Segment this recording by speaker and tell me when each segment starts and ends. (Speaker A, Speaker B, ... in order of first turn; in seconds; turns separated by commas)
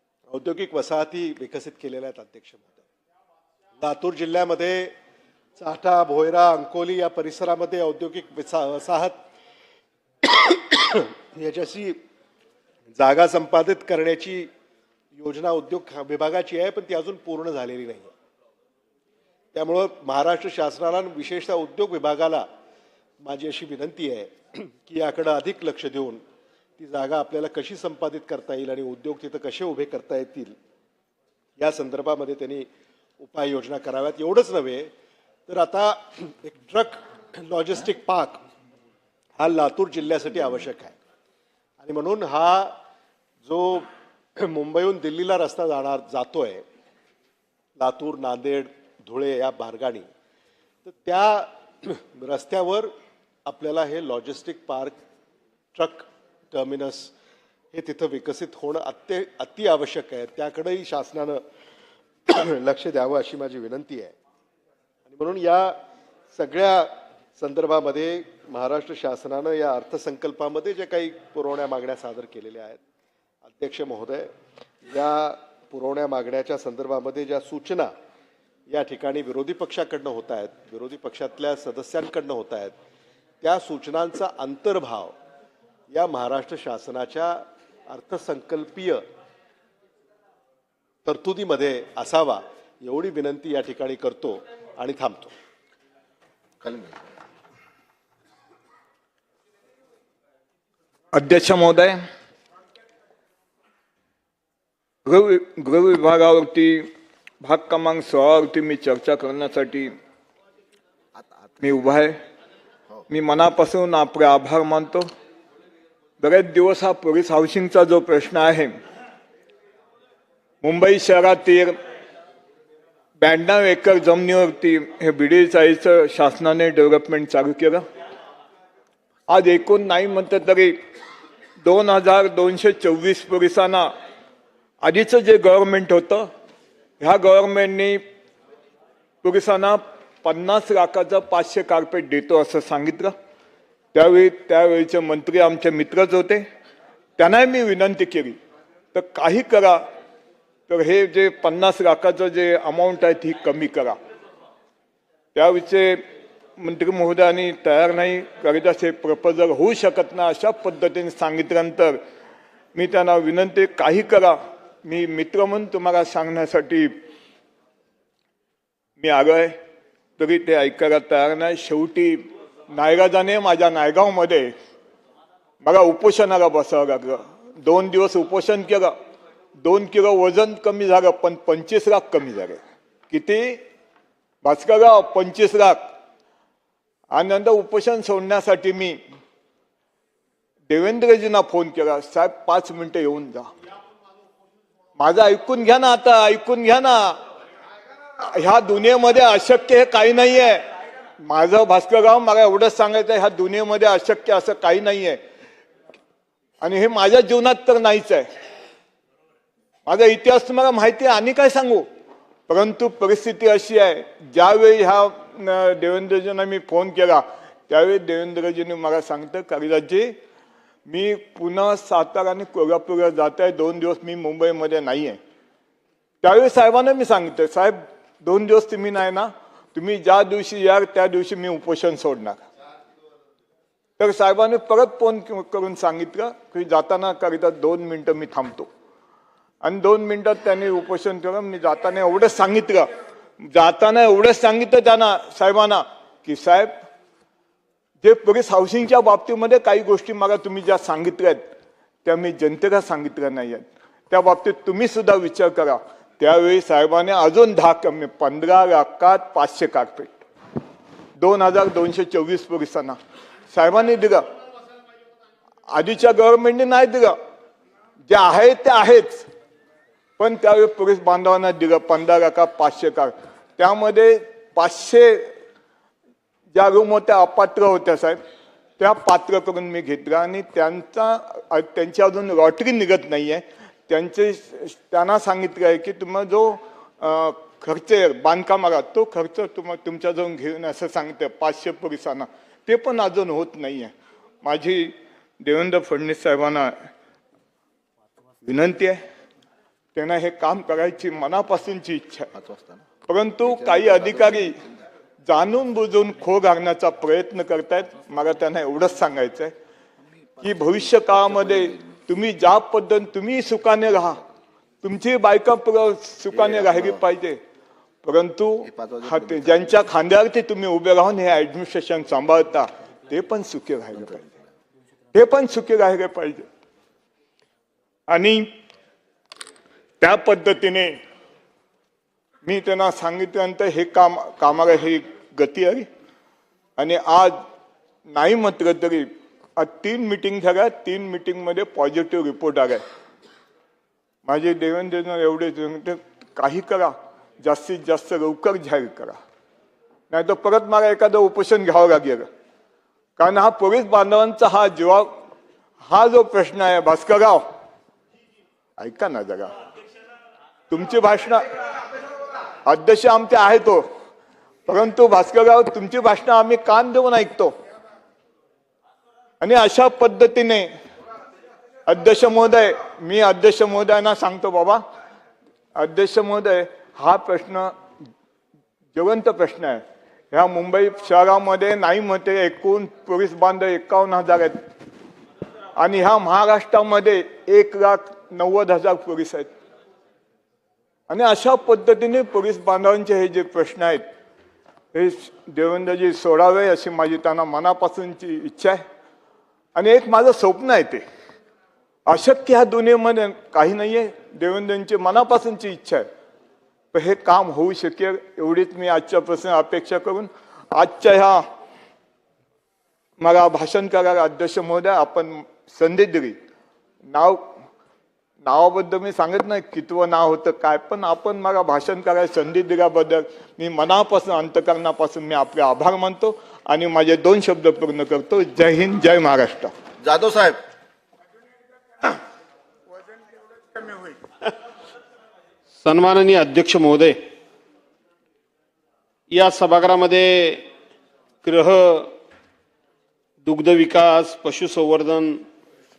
Speaker A: 0.3-2.8, Speaker A: 3.8-4.9, Speaker A: 5.6-9.2, Speaker A: 10.2-12.0, Speaker A: 12.9-14.5, Speaker A: 15.1-18.1, Speaker A: 19.5-22.5, Speaker A: 23.2-26.2, Speaker A: 26.8-30.6, Speaker A: 31.6-32.7, Speaker A: 33.2-34.9, Speaker A: 35.5-38.4, Speaker A: 39.4-41.0, Speaker A: 41.8-42.8, Speaker A: 43.4-46.6, Speaker A: 47.8-50.1, Speaker A: 50.9-52.9, Speaker A: 53.5-55.0, Speaker A: 55.8-57.1, Speaker A: 57.7-61.4, Speaker A: 62.3-64.2, Speaker A: 65.1-65.8, Speaker A: 66.3-72.8, Speaker A: 73.5-74.3, Speaker A: 74.9-77.9, Speaker A: 78.7-82.8, Speaker A: 83.4-85.2, Speaker A: 85.9-89.0, Speaker A: 91.0-95.3, Speaker B: 96.6-97.0, Speaker C: 101.1-102.0, Speaker C: 105.0-106.9, Speaker C: 107.4-109.9, Speaker B: 111.2-111.6, Speaker C: 111.6-112.2, Speaker C: 113.1-115.1, Speaker C: 116.2-118.8, Speaker C: 120.6-121.8, Speaker C: 123.2-127.8, Speaker C: 129.3-130.8, Speaker C: 131.6-133.9, Speaker C: 134.8-136.3, Speaker C: 137.0-138.0, Speaker C: 139.2-143.1, Speaker C: 143.9-146.4, Speaker C: 147.2-148.4, Speaker C: 148.9-149.8, Speaker C: 150.7-154.0, Speaker C: 155.3-156.0, Speaker C: 156.6-162.0, Speaker C: 162.8-166.9, Speaker C: 169.0-169.6, Speaker C: 170.2-174.5, Speaker C: 175.6-178.9, Speaker C: 179.6-183.6, Speaker C: 184.4-185.9, Speaker C: 187.1-189.0, Speaker C: 190.7-193.5, Speaker C: 195.0-197.2, Speaker C: 198.2-200.7, Speaker C: 201.2-205.2, Speaker C: 206.6-208.3, Speaker C: 209.9-211.9, Speaker C: 212.5-220.2, Speaker C: 220.9-225.2, Speaker C: 226.2-232.4, Speaker C: 234.0-238.7, Speaker C: 239.6-242.9, Speaker C: 243.4-246.7, Speaker C: 248.0-251.4, Speaker C: 252.1-260.1, Speaker C: 261.2-263.0, Speaker C: 263.5-264.3, Speaker C: 265.7-267.2, Speaker C: 268.1-269.3, Speaker C: 270.2-275.4, Speaker C: 276.5-278.2, Speaker C: 278.8-293.9, Speaker C: 294.4-296.9, Speaker C: 298.4-299.0, Speaker C: 299.9-302.3, Speaker B: 302.3-302.9, Speaker C: 303.1-304.6, Speaker B: 303.6-304.6, Speaker C: 305.3-309.5, Speaker B: 310.3-311.8, Speaker C: 310.4-314.2, Speaker C: 314.8-317.4, Speaker B: 316.3-317.0, Speaker C: 318.0-324.3, Speaker B: 318.6-319.7, Speaker C: 325.1-326.5, Speaker C: 328.1-328.5, Speaker C: 330.0-331.0, Speaker C: 332.4-335.9, Speaker C: 336.8-337.4, Speaker C: 338.1-342.8, Speaker C: 344.3-349.2, Speaker C: 350.1-352.3, Speaker C: 353.2-355.2, Speaker C: 355.8-357.5, Speaker C: 358.8-359.5, Speaker C: 360.7-361.8, Speaker C: 362.6-363.9, Speaker C: 364.7-367.5, Speaker C: 369.4-370.7, Speaker C: 371.9-374.8, Speaker C: 375.8-377.7, Speaker C: 378.9-384.6, Speaker C: 385.8-389.5, Speaker C: 391.1-394.0, Speaker C: 394.9-398.8, Speaker C: 399.8-401.0, Speaker C: 402.1-406.1, Speaker C: 406.9-411.5, Speaker C: 413.2-416.4, Speaker C: 417.1-417.5, Speaker C: 418.4-429.7, Speaker B: 430.0-430.6, Speaker D: 435.8-437.2, Speaker D: 439.3-440.7, Speaker D: 441.4-442.1, Speaker D: 443.4-445.4